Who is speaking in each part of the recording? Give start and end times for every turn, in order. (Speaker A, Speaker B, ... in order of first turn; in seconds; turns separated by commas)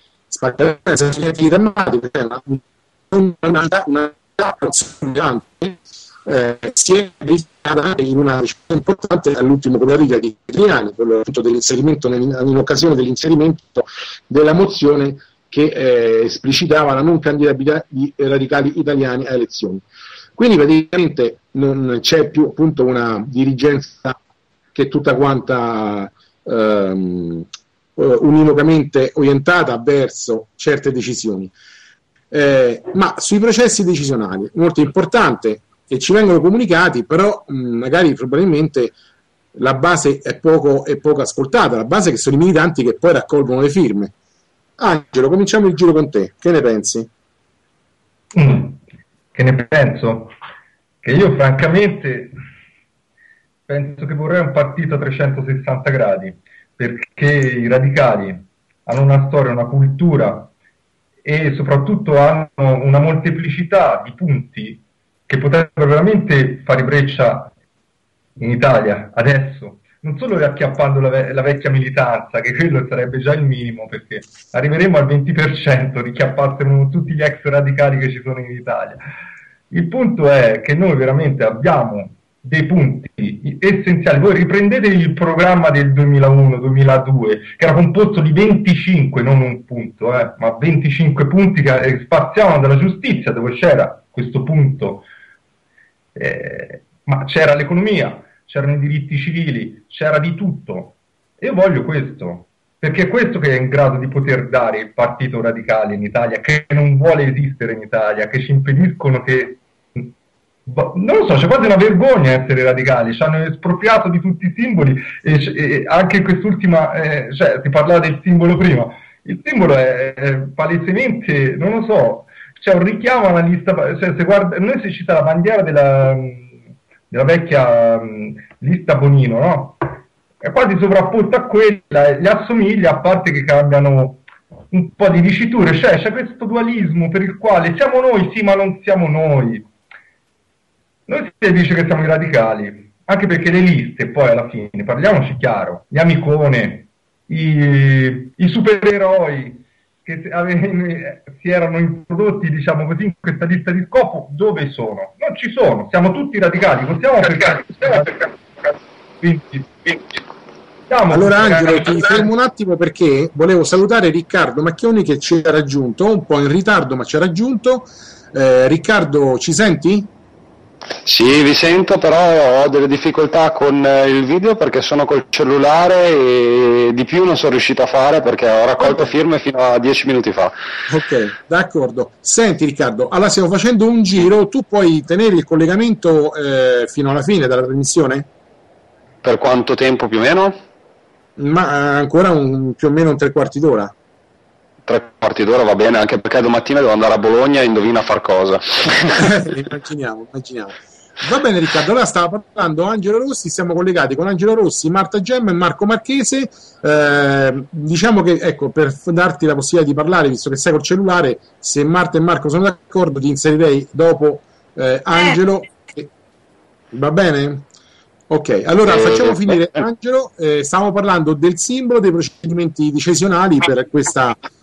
Speaker A: 0.3-19.8, Speaker A: 20.4-24.2, Speaker A: 24.7-31.5, Speaker A: 32.3-39.0, Speaker A: 39.5-44.1, Speaker A: 44.8-47.1, Speaker B: 48.3-48.8, Speaker B: 49.4-50.3, Speaker B: 51.0-52.4, Speaker B: 53.7-60.5, Speaker B: 61.2-67.5, Speaker B: 68.4-79.0, Speaker B: 79.7-95.1, Speaker B: 96.2-110.1, Speaker B: 110.7-126.5, Speaker B: 127.1-129.9, Speaker B: 130.4-139.7, Speaker B: 141.1-158.3, Speaker B: 159.2-160.2, Speaker B: 160.9-162.2, Speaker A: 161.1-170.1, Speaker C: 171.1-180.5, Speaker A: 180.9-188.3, Speaker C: 189.2-190.6, Speaker A: 191.4-193.9, Speaker C: 194.9-199.3, Speaker A: 199.2-216.1, Speaker A: 216.9-217.7, Speaker A: 218.3-224.4